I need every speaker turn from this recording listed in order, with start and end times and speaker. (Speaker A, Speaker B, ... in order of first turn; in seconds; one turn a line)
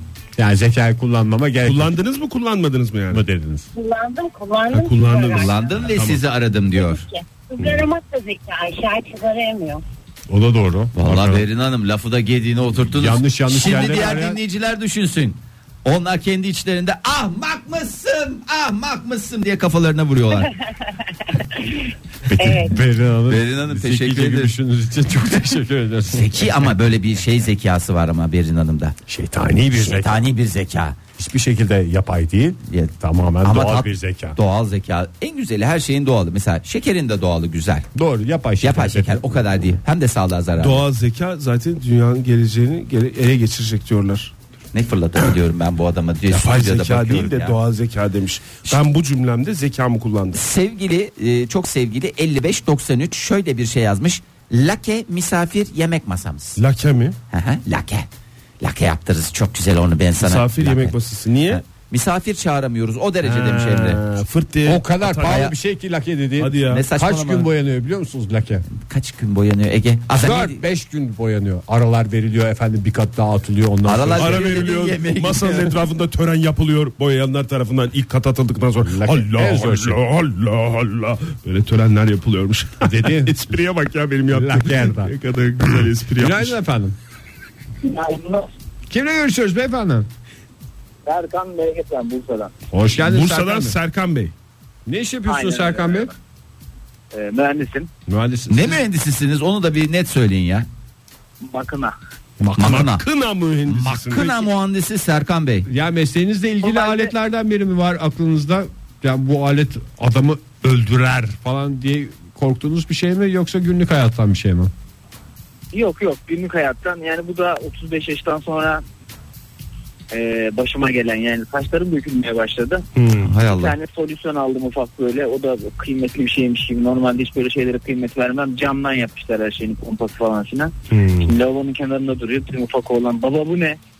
Speaker A: 0.4-1.9
Speaker B: 1.6-3.2
Speaker A: 3.1-3.7
Speaker C: 3.7-5.9
Speaker B: 4.7-6.2
Speaker D: 5.3-7.0
Speaker C: 6.7-9.8
Speaker B: 7.6-7.8
Speaker A: 10.3-11.4
Speaker D: 10.9-20.5
Speaker A: 12.9-14.4
Speaker C: 21.1-22.8
Speaker A: 22.4-26.7
Speaker D: 23.3-24.5
Speaker D: 26.1-28.9
Speaker A: 29.1-30.2
Speaker D: 29.7-31.0
Speaker A: 31.2-34.4
Speaker D: 33.4-37.9
Speaker A: 37.9-39.8
Speaker D: 38.6-40.8
Speaker B: 40.6-44.3
Speaker D: 44.7-47.6
Speaker B: 46.3-50.4
Speaker D: 50.3-56.6
Speaker B: 56.6-57.2
Speaker D: 57.3-58.1
Speaker D: 58.6-61.0
Speaker B: 60.2-61.6
Speaker D: 61.5-64.0
Speaker B: 63.2-65.5
Speaker A: 64.7-68.6
Speaker D: 65.2-65.5
Speaker B: 66.4-66.8
Speaker D: 66.7-67.5
Speaker D: 68.8-70.6
Speaker A: 70.2-74.6
Speaker D: 73.8-75.7
Speaker B: 74.2-86.6
Speaker A: 78.8-80.0
Speaker A: 82.8-83.3
Speaker A: 84.3-86.9
Speaker E: 87.8-88.5
Speaker A: 88.9-90.1
Speaker E: 91.0-92.5
Speaker B: 92.7-94.3
Speaker A: 92.8-93.7
Speaker A: 94.8-96.1
Speaker E: 95.2-96.1
Speaker E: 97.1-97.9
Speaker A: 98.1-98.8
Speaker D: 98.5-100.7
Speaker E: 101.4-101.9
Speaker A: 102.4-102.9
Speaker D: 102.6-103.0
Speaker B: 102.6-104.5
Speaker D: 103.7-105.7
Speaker A: 105.7-114.7
Speaker E: 106.6-107.1
Speaker E: 115.7-118.8
Speaker E: 120.1-122.9
Speaker B: 123.0-123.3
Speaker D: 123.2-123.8
Speaker E: 123.4-133.8
Speaker B: 130.9-131.3